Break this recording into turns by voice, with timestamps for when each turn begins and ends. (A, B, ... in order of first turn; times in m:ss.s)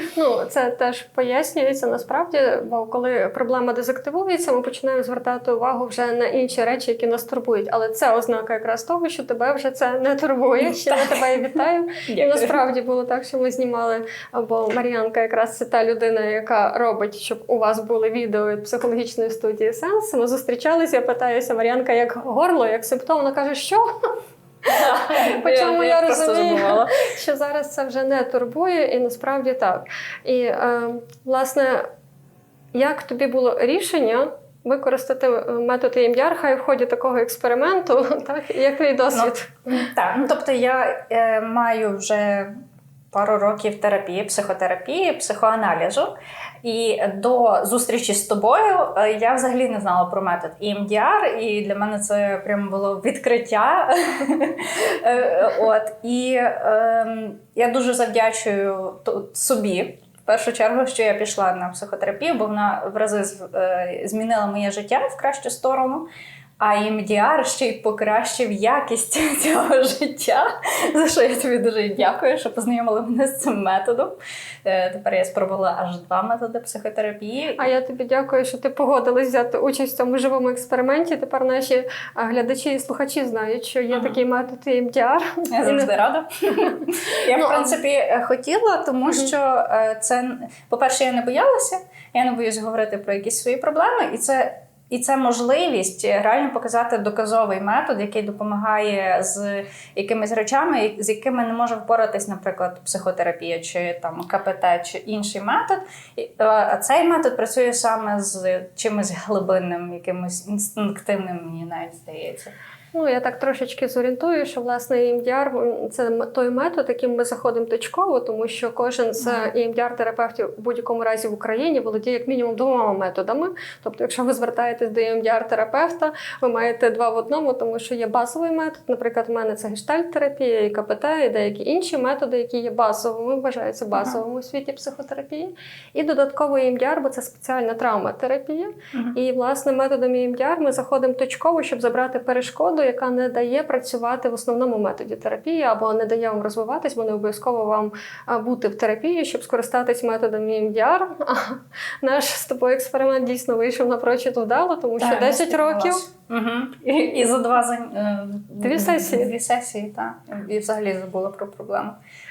0:00.1-0:24.1 A
0:10.6-0:12.6 B
0:24.7-0:27.0 B
0:25.0-0:31.9 A
0:32.7-0:39.8 A
0:39.1-0:42.5 B
0:43.1-0:46.1 B
0:46.6-1:06.1 B
1:06.6-1:14.1 B
1:14.6-1:17.7 B
1:17.6-1:25.9 A
1:23.9-1:24.2 B
1:25.5-1:52.5 B
1:27.3-1:27.8 A
1:52.9-2:36.0 A
1:59.2-1:59.5 B
2:35.0-2:42.0 B
2:38.6-2:39.3 A